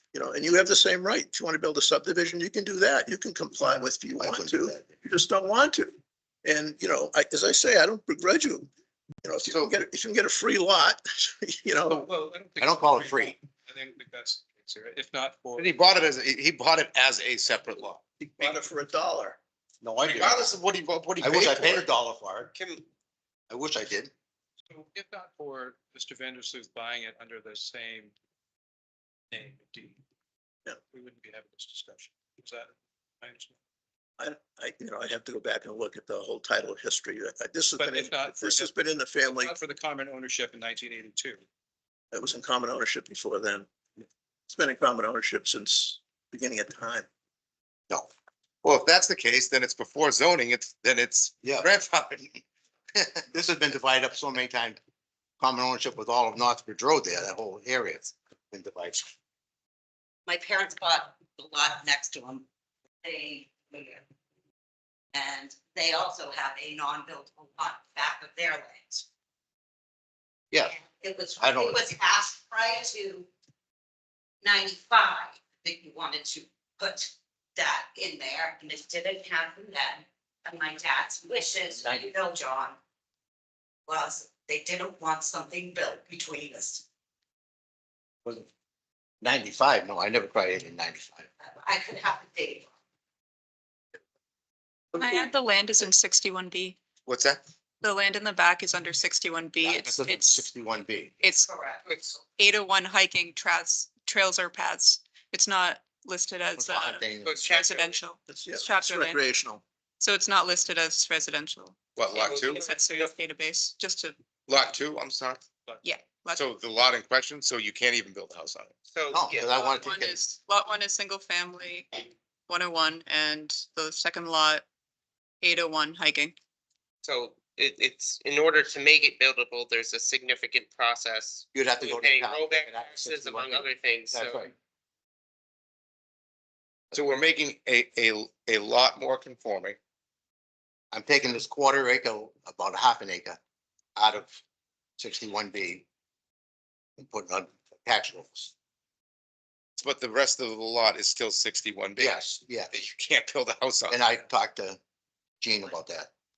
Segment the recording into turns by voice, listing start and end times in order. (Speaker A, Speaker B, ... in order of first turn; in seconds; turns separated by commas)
Speaker A: 0.1-8.7, Speaker B: 4.2-4.9, Speaker A: 9.2-12.1, Speaker C: 11.9-15.7, Speaker B: 12.6-13.4, Speaker D: 15.6-18.0, Speaker A: 18.2-19.4, Speaker B: 19.8-20.5, Speaker D: 20.0-21.9, Speaker B: 21.2-22.5, Speaker E: 22.6-22.9, Speaker B: 23.5-24.1, Speaker C: 24.7-28.1, Speaker C: 29.3-30.0, Speaker C: 30.8-33.6, Speaker A: 34.2-39.5, Speaker C: 37.8-41.4, Speaker A: 42.1-43.7, Speaker A: 44.5-47.1, Speaker D: 48.6-52.4, Speaker B: 51.4-51.7, Speaker B: 53.0-54.8, Speaker B: 55.4-59.1, Speaker F: 60.3-62.5, Speaker F: 63.0-64.0, Speaker F: 65.1-69.0, Speaker B: 70.5-70.8, Speaker F: 70.7-73.3, Speaker B: 71.4-71.8, Speaker F: 74.4-82.8, Speaker B: 81.8-82.0, Speaker F: 83.9-86.8, Speaker B: 89.2-91.3, Speaker F: 91.4-92.7, Speaker G: 94.9-96.8, Speaker D: 97.1-97.4, Speaker G: 97.8-100.5, Speaker B: 99.6-101.1, Speaker G: 101.2-101.5, Speaker F: 101.4-102.3, Speaker G: 102.4-109.2, Speaker B: 106.6-107.4, Speaker E: 107.2-108.0, Speaker A: 108.3-109.6, Speaker G: 110.0-111.8, Speaker D: 112.0-112.7, Speaker E: 112.2-113.1, Speaker G: 112.6-114.2, Speaker D: 114.5-115.4, Speaker G: 115.8-116.5, Speaker D: 116.3-118.8, Speaker E: 118.9-119.5, Speaker B: 119.1-120.2, Speaker G: 119.5-124.7, Speaker G: 125.4-126.4, Speaker E: 127.0-134.5, Speaker B: 131.5-134.5, Speaker D: 136.9-139.8, Speaker B: 140.9-143.4, Speaker B: 144.0-144.4, Speaker B: 145.0-145.9, Speaker B: 147.0-148.5, Speaker D: 149.8-154.0, Speaker B: 152.0-152.7, Speaker B: 153.9-154.8, Speaker B: 155.4-156.1